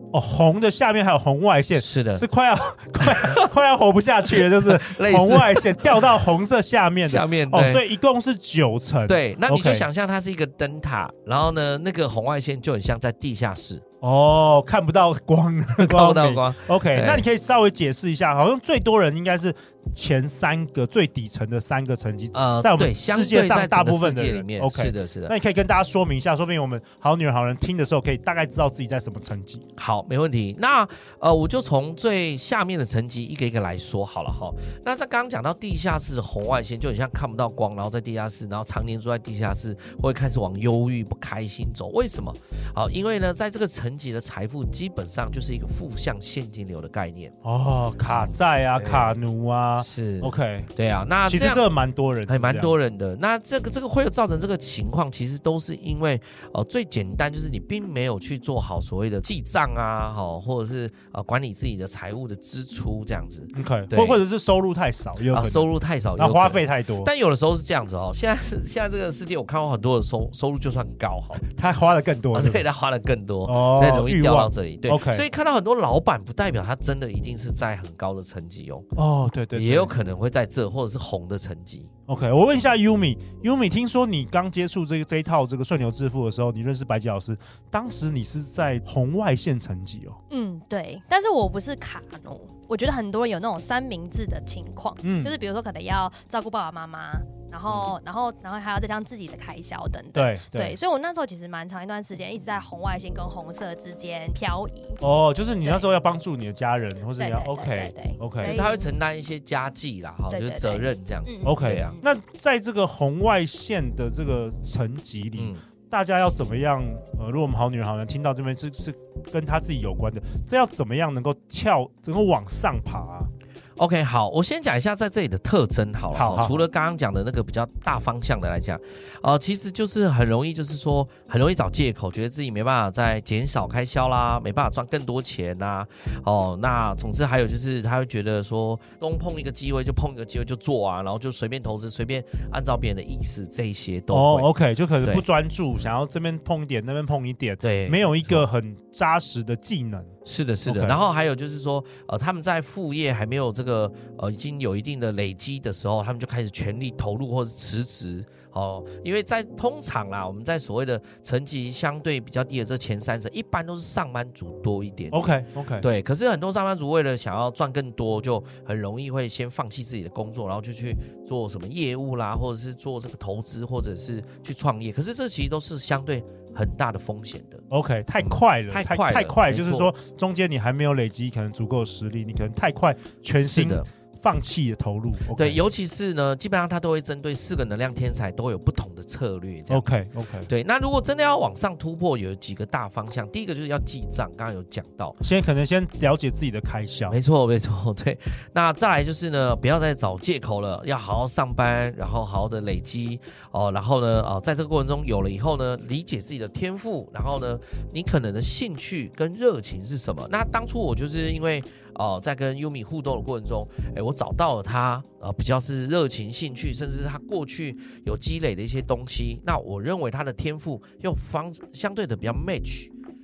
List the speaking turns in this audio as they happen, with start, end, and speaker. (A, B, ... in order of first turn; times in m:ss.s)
0:00.1-0:09.8 A
0:01.7-0:02.2 B
0:03.0-0:03.5 B
0:04.2-0:06.1 B
0:07.0-0:07.8 B
0:09.1-0:13.8 B
0:14.0-0:29.6 A
0:15.8-0:17.2 B
0:22.3-0:25.3 B
0:29.8-0:47.3 B
0:47.4-0:50.7 A
0:48.0-0:49.2 B
0:49.8-0:51.6 B
0:51.2-0:52.7 A
0:52.3-1:04.2 B
1:03.5-1:07.1 A
1:05.3-1:11.4 B
1:11.4-1:12.6 A
1:12.3-1:18.9 B
1:13.4-1:15.2 A
1:19.0-1:19.9 A
1:19.5-1:21.9 B
1:22.1-1:30.2 A
1:30.3-1:45.0 C
1:35.0-1:35.3 A
1:37.7-1:37.9 B
1:40.1-1:40.8 A
1:45.0-1:48.5 A
1:47.2-1:48.9 C
1:48.4-1:52.0 B
1:50.3-1:52.0 C
1:51.4-2:03.3 A
2:03.8-2:24.5 B
2:06.1-2:06.6 A
2:24.1-2:30.1 A
2:27.6-2:28.4 B
2:30.2-2:45.2 B
2:30.6-2:31.0 A
2:45.1-2:45.8 A
2:45.8-2:57.6 B
2:57.7-3:05.6 A
2:58.2-2:59.9 B
3:03.4-3:03.9 B
3:05.4-3:15.2 B
3:09.7-3:10.5 A
3:15.2-3:17.2 A
3:17.1-3:42.9 B